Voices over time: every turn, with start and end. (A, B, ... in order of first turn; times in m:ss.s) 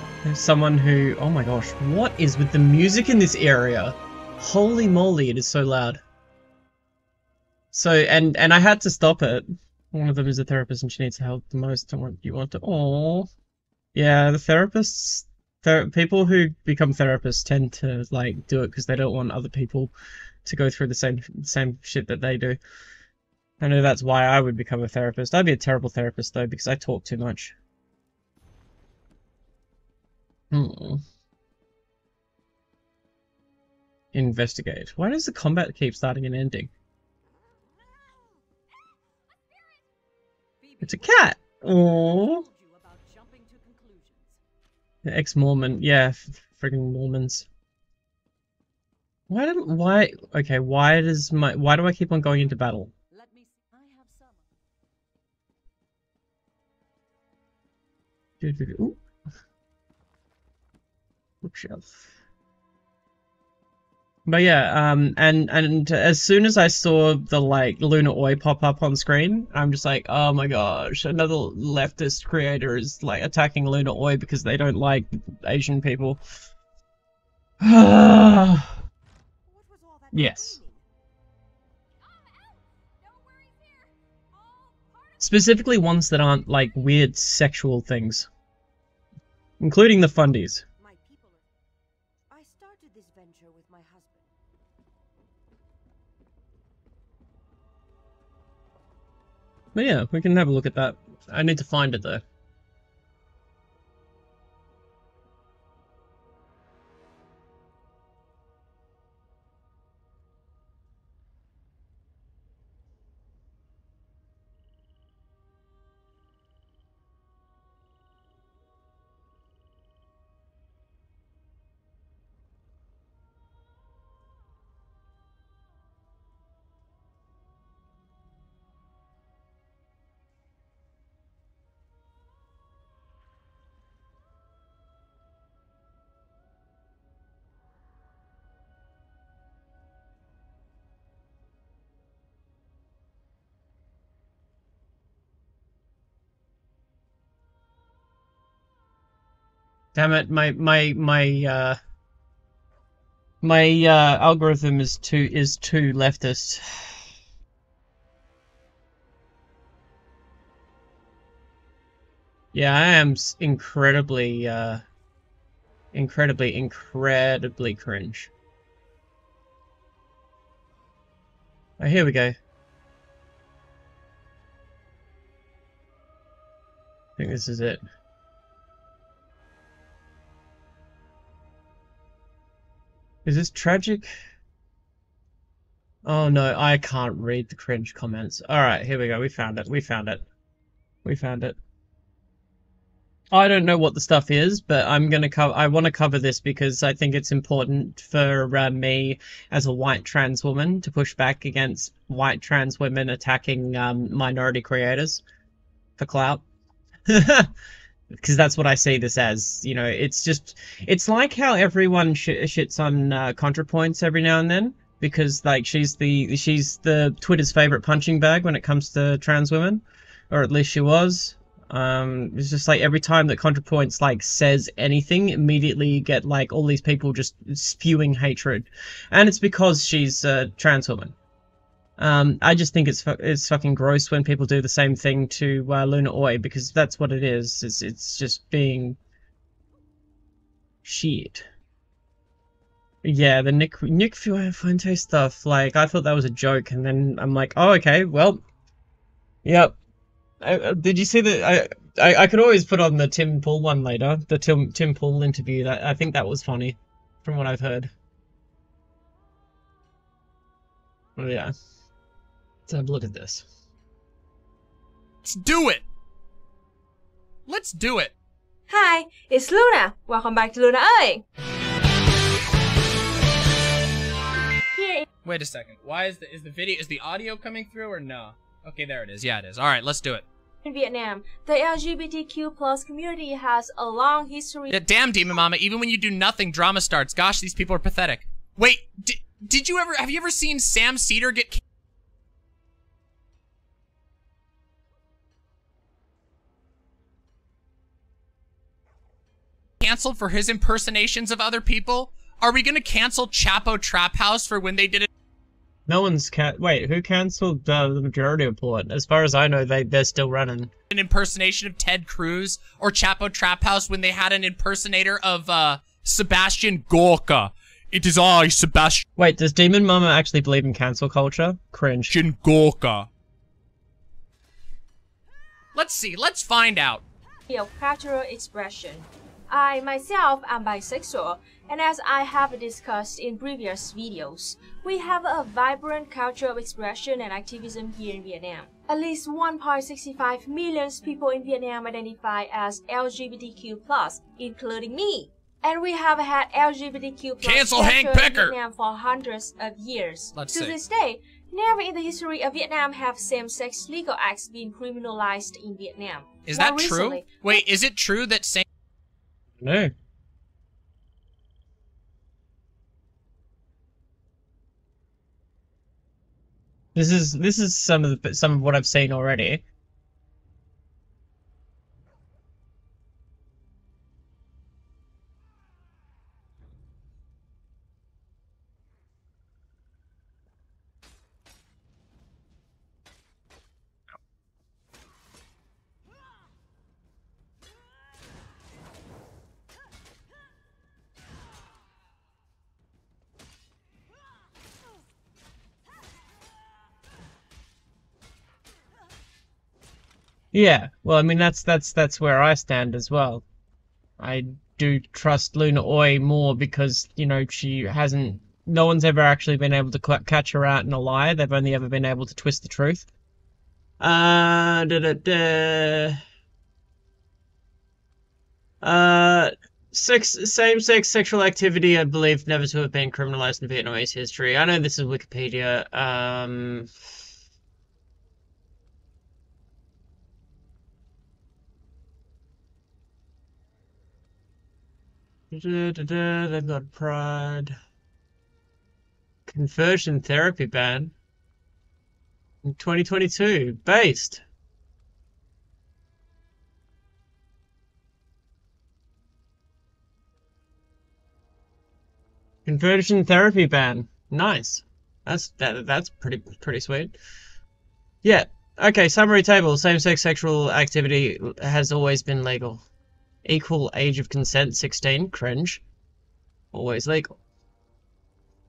0:00.2-0:06.0 A
0:07.7-0:13.3 A
0:13.9-0:19.9 A
0:20.4-0:22.6 A
0:23.6-0:27.5 A
0:30.5-0:31.0 A
0:34.1-0:36.7 A
0:40.6-0:44.4 B
0:40.8-0:42.4 A
0:45.0-0:47.5 A
0:49.3-0:52.9 A
0:53.1-0:54.5 B
0:58.4-0:59.0 A
1:01.4-1:02.0 A
1:04.2-1:16.2 A
1:17.6-1:18.8 A
1:19.4-1:20.8 B
1:20.1-1:20.6 A
1:22.1-1:25.2 B
1:25.2-1:28.3 A
1:29.6-1:30.6 A
1:30.8-1:31.4 B
1:32.3-1:34.3 B
1:39.7-1:42.2 A
2:29.9-2:31.8 A
2:33.4-2:37.0 A
2:42.5-2:44.8 A
2:45.9-2:48.3 A
2:51.8-2:52.4 A
2:57.2-2:57.8 A
3:03.2-3:04.1 A
3:06.0-3:10.2 A
3:11.0-3:11.6 A
3:13.3-3:25.2 A
3:26.0-3:26.4 A
3:27.1-3:27.5 A
3:28.1-3:51.1 A
3:52.0-3:59.0 A
4:00.8-4:01.4 A
4:03.0-4:08.4 A
4:09.4-4:09.7 A
4:10.4-4:17.9 A
4:21.2-4:21.5 A
4:22.7-4:23.5 A
4:25.2-4:25.8 C
4:27.5-4:28.1 C
4:28.7-4:31.2 D
4:34.7-4:35.1 D
4:35.2-4:40.2 C
4:40.6-4:44.8 D
4:44.7-4:51.6 C
4:59.8-5:05.1 C
5:05.9-5:10.7 A
5:10.9-5:19.0 C
5:19.2-5:22.2 A
5:22.1-5:23.1 C
5:25.7-5:27.0 C
5:27.5-5:57.6 D
5:47.4-5:48.5 C
5:50.3-5:50.8 C
5:56.4-5:58.6 C
5:59.6-5:59.9 A
6:06.9-6:09.6 A
6:40.5-6:43.4 A
6:44.2-6:53.1 A
6:54.0-6:56.2 A
6:58.8-7:06.9 A
7:15.5-7:17.8 A
7:19.5-7:21.1 A
7:22.6-7:24.4 A
7:32.6-7:37.2 A
7:38.2-7:42.8 A
7:43.4-7:45.8 A
7:46.7-7:47.3 A